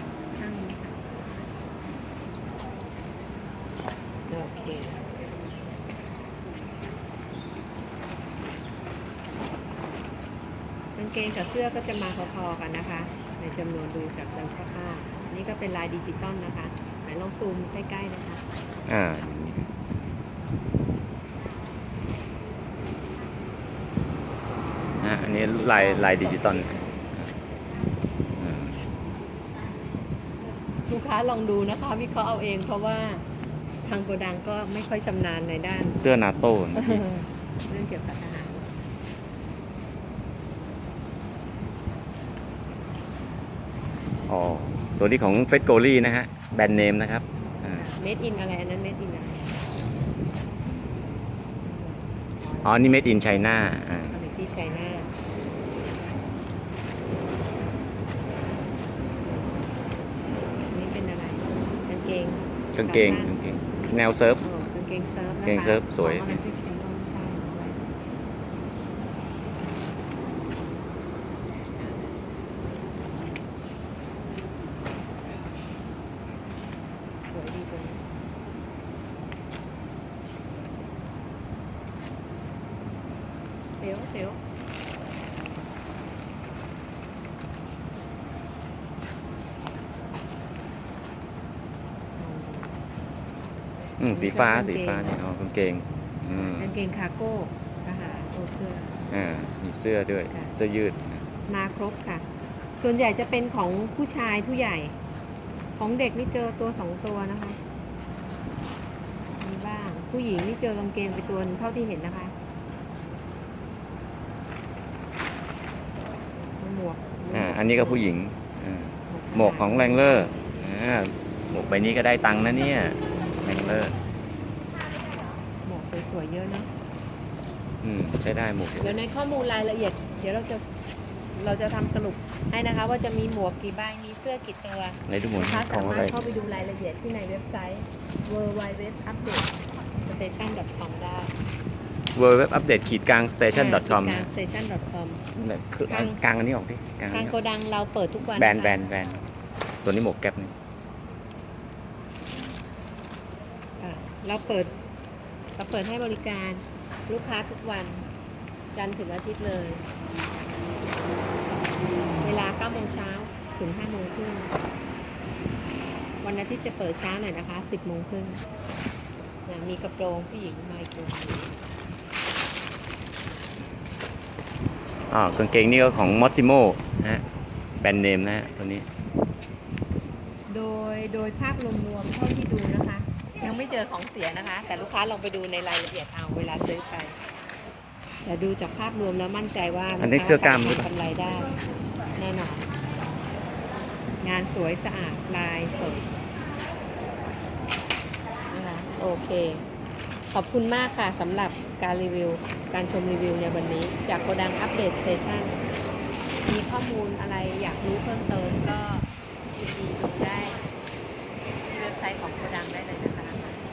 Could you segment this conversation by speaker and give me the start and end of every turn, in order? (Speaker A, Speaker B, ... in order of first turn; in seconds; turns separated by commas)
Speaker A: 0.4-1.1, Speaker A: 4.3-5.0, Speaker A: 10.9-18.4, Speaker B: 18.9-19.7, Speaker B: 25.0-27.3, Speaker A: 25.6-26.9, Speaker B: 28.4-28.8, Speaker A: 30.9-33.2, Speaker A: 33.8-36.2, Speaker B: 36.0-37.0, Speaker A: 36.8-38.8, Speaker B: 44.3-47.9, Speaker A: 47.8-49.6, Speaker A: 51.7-55.1, Speaker B: 52.6-54.1, Speaker A: 60.7-63.3, Speaker B: 62.8-64.5, Speaker A: 64.4-67.8, Speaker B: 65.4-66.4, Speaker A: 71.8-72.2, Speaker A: 77.3-78.0, Speaker A: 83.8-84.4, Speaker A: 92.2-92.8, Speaker B: 94.0-96.7, Speaker A: 94.1-95.2, Speaker A: 96.3-99.1, Speaker B: 99.1-101.2, Speaker A: 101.5-102.3, Speaker A: 102.8-105.0, Speaker A: 105.8-107.6, Speaker A: 109.4-112.3, Speaker A: 116.6-118.1, Speaker B: 117.3-124.0, Speaker A: 119.1-120.3, Speaker A: 123.1-123.9, Speaker A: 125.7-126.7, Speaker B: 127.8-129.0, Speaker A: 128.8-130.7, Speaker A: 131.3-141.3, Speaker B: 135.1-136.2, Speaker B: 142.2-144.3, Speaker A: 143.5-145.2, Speaker B: 145.3-147.3, Speaker A: 145.9-146.2, Speaker A: 147.1-148.8, Speaker B: 148.4-149.2, Speaker B: 149.8-150.5, Speaker A: 153.8-154.7, Speaker A: 155.6-158.1, Speaker A: 158.7-159.8, Speaker A: 162.2-164.6, Speaker A: 166.2-168.4, Speaker A: 169.5-171.6, Speaker B: 175.1-177.2, Speaker B: 177.8-178.9, Speaker A: 180.5-187.2, Speaker A: 188.2-191.6, Speaker B: 190.0-190.9, Speaker A: 192.2-192.7, Speaker A: 194.2-196.1, Speaker A: 198.5-199.6, Speaker A: 200.3-205.6, Speaker A: 206.4-210.6, Speaker A: 211.6-213.4